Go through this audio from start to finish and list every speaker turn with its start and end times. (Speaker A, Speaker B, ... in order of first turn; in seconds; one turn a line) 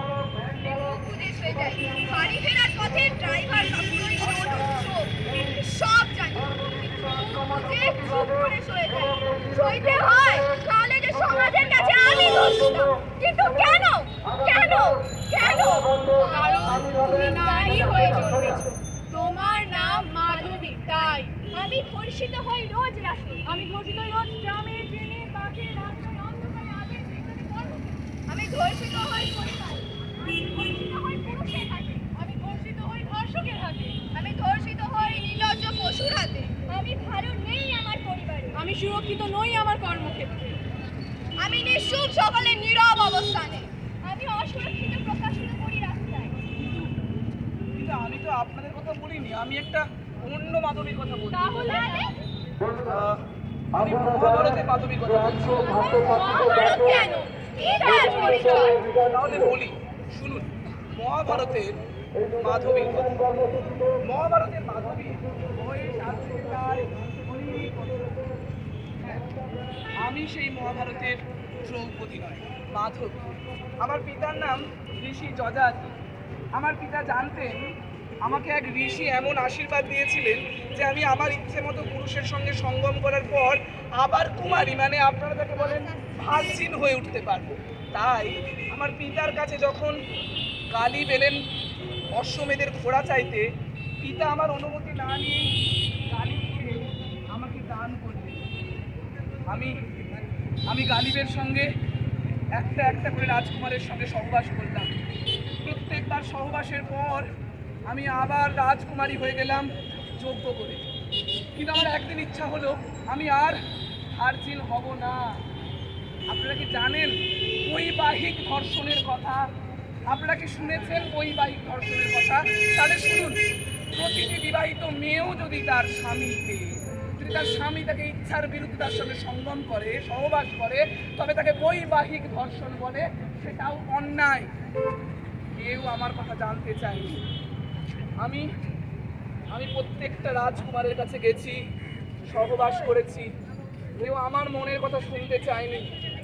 Speaker A: 0.5-20.9
Speaker B: 16.2-21.4
Speaker A: 21.5-23.5
Speaker B: 23.4-28.0
Speaker A: 28.3-32.0
Speaker B: 32.1-34.0
Speaker A: 34.1-38.6
Speaker B: 38.5-40.6
Speaker A: 41.4-46.4
Speaker C: 46.6-46.9
Speaker C: 47.7-51.7
Speaker B: 51.3-52.1
Speaker A: 51.6-52.1
Speaker C: 52.8-53.2
Speaker C: 53.7-55.6
Speaker B: 55.6-58.8
Speaker A: 55.7-58.8
Speaker C: 59.0-61.8
Speaker C: 62.4-63.2
Speaker C: 64.0-68.2
Speaker C: 70.0-75.9
Speaker C: 76.5-77.7
Speaker C: 78.2-90.0
Speaker A: 85.6-86.1
Speaker C: 90.7-91.4
Speaker C: 92.1-93.5
Speaker C: 94.0-95.4
Speaker C: 96.1-98.4
Speaker C: 99.5-99.8
Speaker C: 100.7-101.7
Speaker C: 102.5-104.9
Speaker C: 105.6-107.3
Speaker C: 107.9-110.8
Speaker C: 111.5-113.6
Speaker C: 114.2-115.4
Speaker C: 116.3-119.5
Speaker C: 120.1-123.4
Speaker C: 123.9-134.5
Speaker C: 135.6-137.2
Speaker C: 138.2-138.5
Speaker C: 139.5-141.6
Speaker C: 142.3-143.3
Speaker C: 144.0-145.9